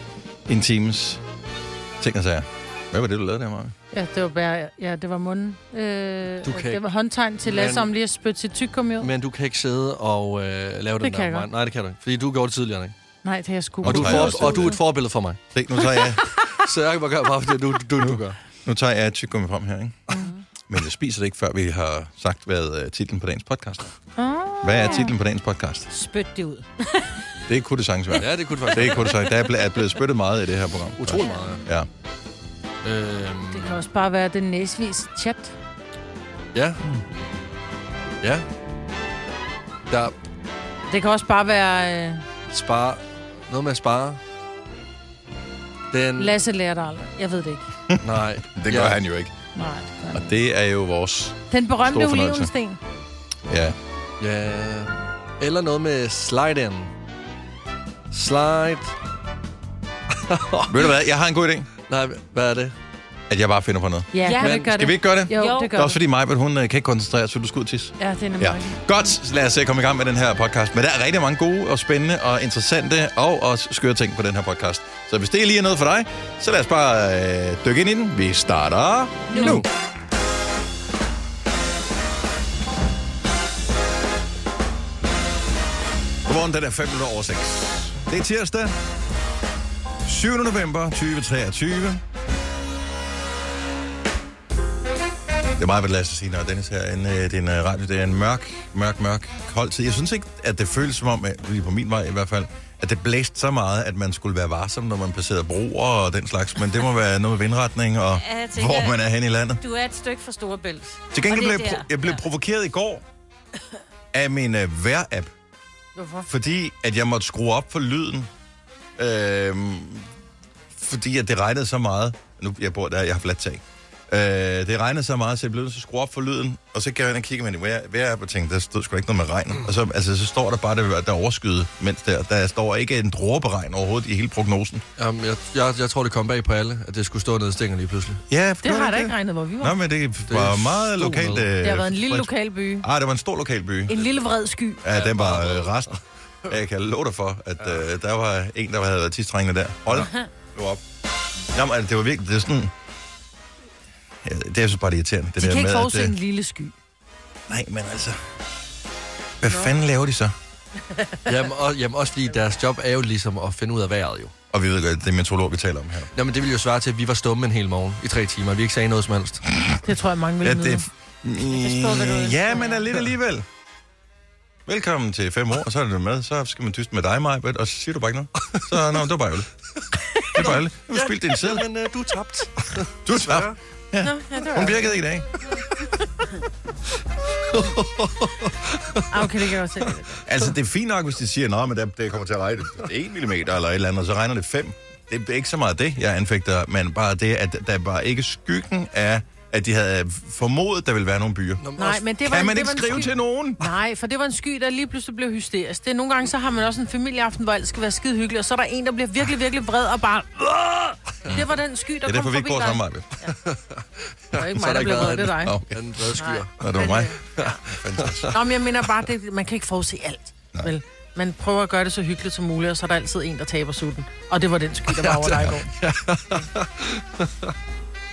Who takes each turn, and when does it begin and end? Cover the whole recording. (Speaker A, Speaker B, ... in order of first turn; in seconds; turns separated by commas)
Speaker A: 0.5-1.2, Speaker A: 2.0-3.7, Speaker B: 3.9-9.1, Speaker C: 6.5-6.8, Speaker C: 7.4-7.9, Speaker C: 9.0-12.9, Speaker B: 11.0-11.5, Speaker B: 13.2-14.7, Speaker A: 13.8-14.8, Speaker C: 13.8-15.4, Speaker A: 15.5-16.2, Speaker C: 16.6-18.4, Speaker A: 18.0-20.1, Speaker A: 20.7-23.9, Speaker B: 24.2-25.1, Speaker A: 24.6-25.9, Speaker D: 25.9-27.2, Speaker A: 27.5-31.9, Speaker C: 28.2-29.1, Speaker C: 31.0-31.6, Speaker C: 32.8-33.7, Speaker B: 33.5-35.5, Speaker C: 36.5-36.8, Speaker C: 39.9-40.1, Speaker B: 40.9-42.2, Speaker C: 42.5-44.2, Speaker C: 45.9-46.4, Speaker B: 46.2-47.7, Speaker A: 47.9-49.3, Speaker C: 48.0-49.0, Speaker B: 49.5-50.3, Speaker A: 50.1-52.5, Speaker B: 51.5-52.8, Speaker A: 53.5-53.8, Speaker C: 54.2-56.9, Speaker C: 58.1-59.0, Speaker C: 60.3-60.9, Speaker A: 60.7-61.7, Speaker C: 61.9-62.7, Speaker A: 63.3-64.1, Speaker B: 64.1-66.0, Speaker D: 64.2-64.5, Speaker C: 64.4-64.7, Speaker A: 64.6-79.7, Speaker D: 65.3-65.7, Speaker B: 68.0-68.8, Speaker D: 79.3-79.6, Speaker C: 79.4-79.7, Speaker A: 86.2-88.8, Speaker A: 90.0-92.0, Speaker A: 95.6-109.6, Speaker D: 108.1-109.0, Speaker D: 109.6-112.2, Speaker A: 111.1-113.0, Speaker A: 114.1-115.3, Speaker B: 116.0-116.3, Speaker A: 116.3-118.3, Speaker A: 119.0-120.1, Speaker A: 120.7-134.8, Speaker C: 135.0-138.2, Speaker A: 138.3-144.1, Speaker B: 138.6-139.8, Speaker C: 140.3-141.5, Speaker B: 141.6-142.9, Speaker B: 143.9-144.8, Speaker A: 144.8-145.9, Speaker C: 144.9-145.9, Speaker A: 146.5-150.8, Speaker A: 151.5-152.7, Speaker A: 154.2-156.1, Speaker B: 155.4-156.8, Speaker A: 157.5-158.2, Speaker A: 159.4-160.3, Speaker B: 160.9-161.3, Speaker C: 161.3-164.3, Speaker A: 164.5-166.1, Speaker C: 166.1-169.4, Speaker B: 169.8-170.9, Speaker A: 170.4-173.4, Speaker B: 171.8-172.6, Speaker A: 174.7-179.5, Speaker A: 180.3-181.7, Speaker C: 180.4-183.6, Speaker A: 183.1-185.3, Speaker B: 184.0-184.9, Speaker C: 187.5-189.3, Speaker B: 189.1-190.2, Speaker A: 190.2-201.6, Speaker C: 201.6-202.0, Speaker B: 201.8-213.3, Speaker A: 202.2-203.6, Speaker A: 211.2-213.1, Speaker C: 213.3-216.5, Speaker B: 214.3-215.6, Speaker A: 215.4-215.8, Speaker B: 216.2-217.1, Speaker A: 216.6-218.3, Speaker C: 217.4-218.3, Speaker B: 218.3-225.7, Speaker C: 224.9-227.5